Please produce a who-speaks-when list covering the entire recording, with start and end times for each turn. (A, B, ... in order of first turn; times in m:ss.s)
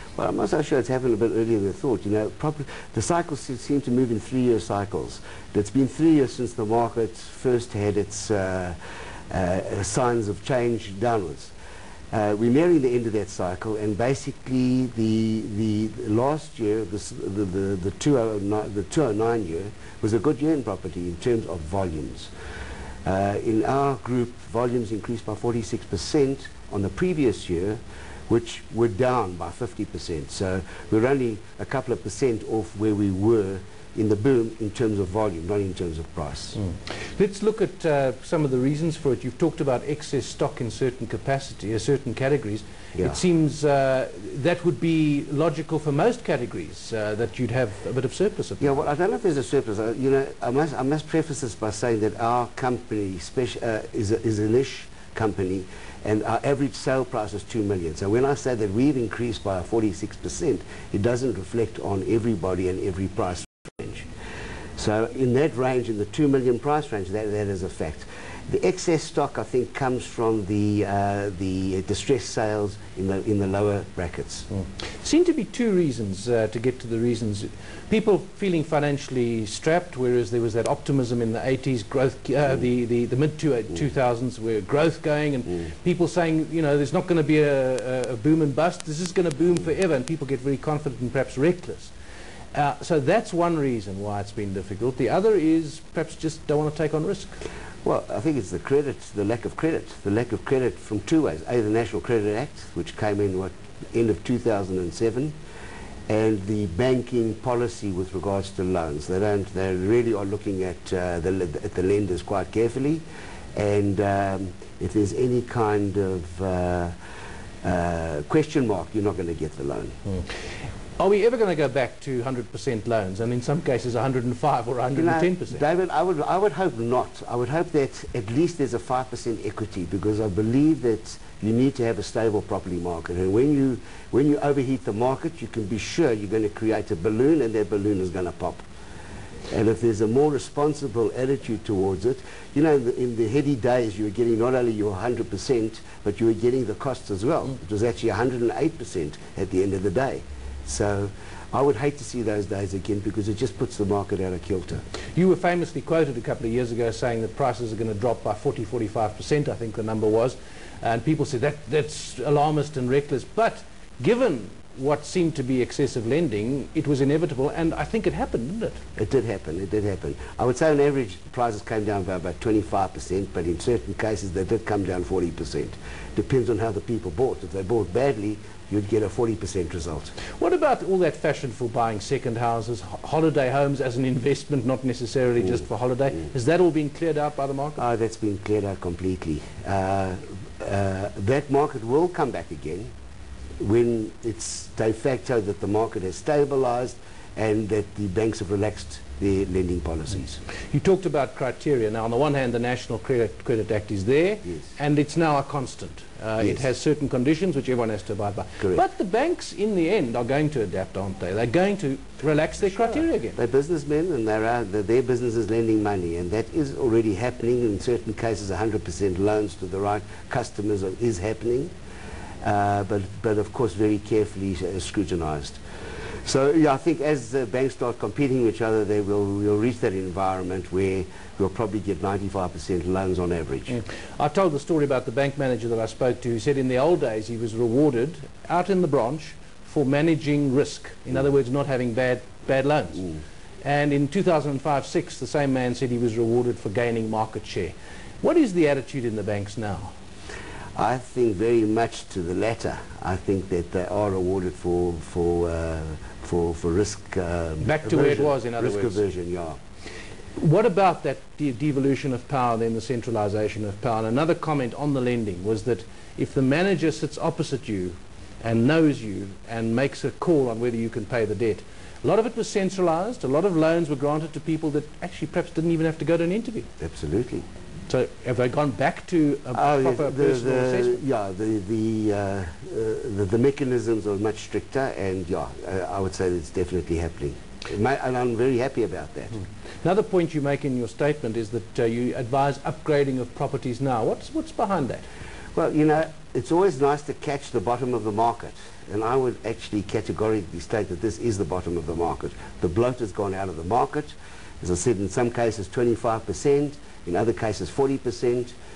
0:00.2-0:08.8 A
0:09.3-0:11.5 A
0:12.1-0:22.3 A
0:23.0-0:36.6 A
0:36.6-0:48.8 B
0:48.6-1:04.1 A
1:04.8-1:14.5 A
1:14.5-1:31.9 B
1:32.5-1:37.3 B
1:37.8-1:45.3 A
1:46.1-1:53.0 A
1:53.6-1:56.9 A
1:57.6-2:00.0 A
2:01.0-2:05.6 B
2:05.0-2:18.6 A
2:19.5-2:34.8 A
2:35.2-2:48.8 B
2:49.0-3:00.1 A
3:00.3-3:07.8 B
3:07.8-3:12.9 A
3:13.6-3:20.4 A
3:20.7-3:33.4 B
3:33.4-3:41.7 A
3:42.4-3:45.6 A
3:46.2-3:53.8 A
3:53.7-4:03.1 B
4:03.6-4:09.9 B
4:10.8-4:19.6 A
4:17.6-4:19.0 B
4:20.4-4:36.7 B
4:36.8-4:37.5 A
4:37.9-4:41.0 B
4:39.5-4:49.4 A
4:49.8-4:55.0 B
4:55.6-5:08.6 A